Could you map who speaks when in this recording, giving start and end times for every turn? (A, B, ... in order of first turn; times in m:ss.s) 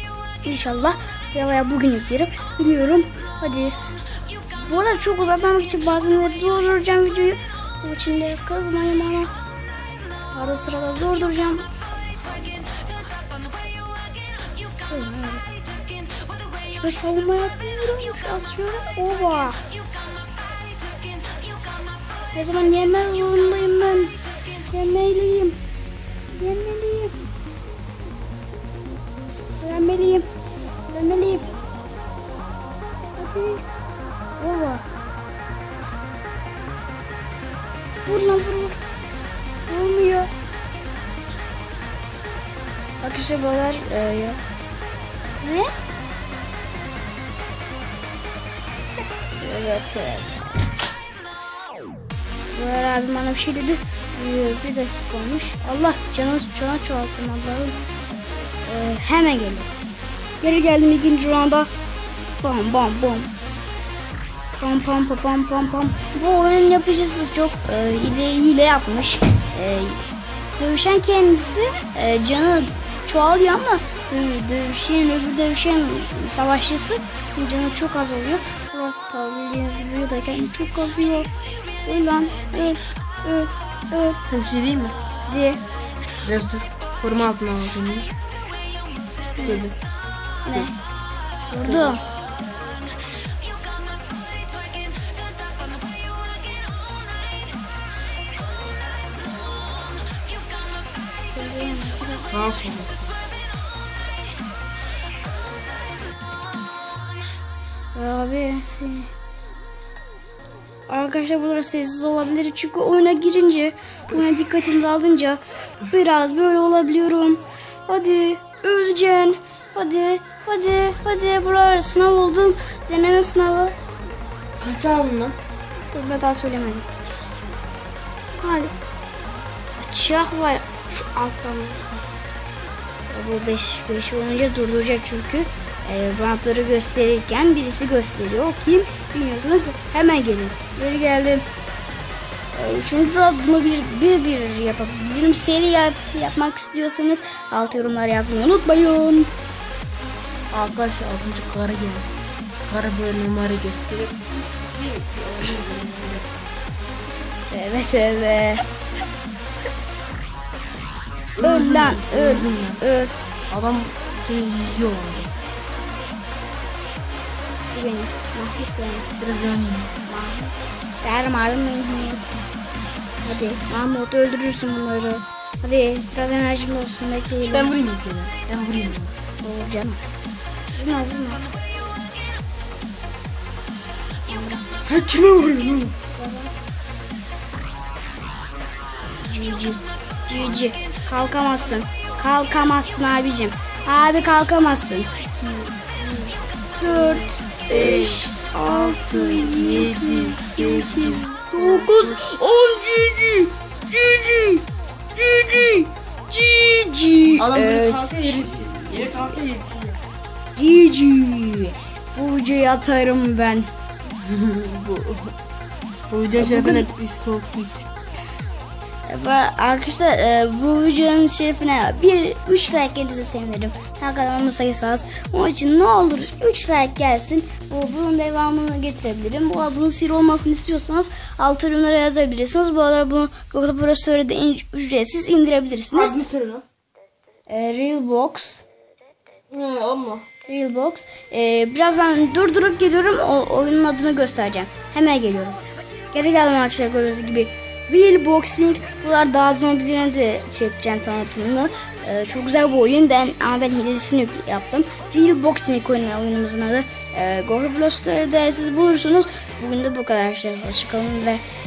0:00.4-0:03.7 A
0:04.6-0:09.3 A
0:10.3-0:11.7 A
0:12.2-0:12.6 A
0:14.9-0:15.4 A
0:16.7-0:19.6 A
0:22.3-0:24.1 A
0:24.6-0:25.6 A
0:26.3-0:27.2 A
0:29.6-0:30.2 A
0:30.9-0:31.5 A
0:33.2-0:33.6 A
0:34.4-0:34.8 A
0:38.0-0:38.8 A
0:39.7-0:40.3 A
0:43.0-0:44.4 A
0:45.4-0:45.7 A
0:49.3-0:50.6 A
0:52.5-0:57.8 A
0:58.6-0:59.7 A
1:00.4-1:01.7 A
1:02.4-1:03.3 A
1:04.6-1:10.0 A
1:10.6-1:21.3 A
1:21.8-1:24.2 A
1:24.3-1:25.0 B
1:25.3-1:25.6 A
1:26.2-1:28.1 B
1:29.4-1:29.8 B
1:30.4-1:30.7 A
1:31.5-1:32.0 A
1:31.6-1:32.0 B
1:41.2-1:42.3 A
1:42.2-1:43.1 B
1:47.9-1:49.1 A
1:50.9-2:03.8 A
2:04.6-2:05.4 B
2:05.9-2:06.9 A
2:08.4-2:08.7 A
2:09.8-2:12.0 A
2:13.1-2:21.5 A
2:22.5-2:29.3 A
2:30.5-2:36.3 B
2:37.5-2:38.6 A
2:41.4-2:42.8 B
2:41.4-2:43.1 A
2:43.5-2:45.3 B
2:47.7-2:49.1 A
2:49.2-2:49.9 B
2:50.0-2:52.4 A
2:53.2-2:57.7 A
2:57.5-2:59.2 B
2:59.4-3:00.0 A
3:00.7-3:01.4 A
3:04.3-3:04.6 A
3:04.8-3:06.0 B
3:06.1-3:06.5 A
3:09.2-3:15.1 A
3:15.4-3:16.3 B
3:16.8-3:29.2 A
3:16.8-3:22.2 B
3:27.4-3:30.0 B
3:30.5-3:33.7 A
3:34.2-3:35.3 B
3:36.1-3:37.9 B
3:36.4-3:36.9 A
3:39.1-3:56.2 A
3:55.9-3:56.6 B
3:57.5-3:58.6 A
3:59.5-4:00.3 B
4:00.5-4:05.6 A
4:06.1-4:21.4 A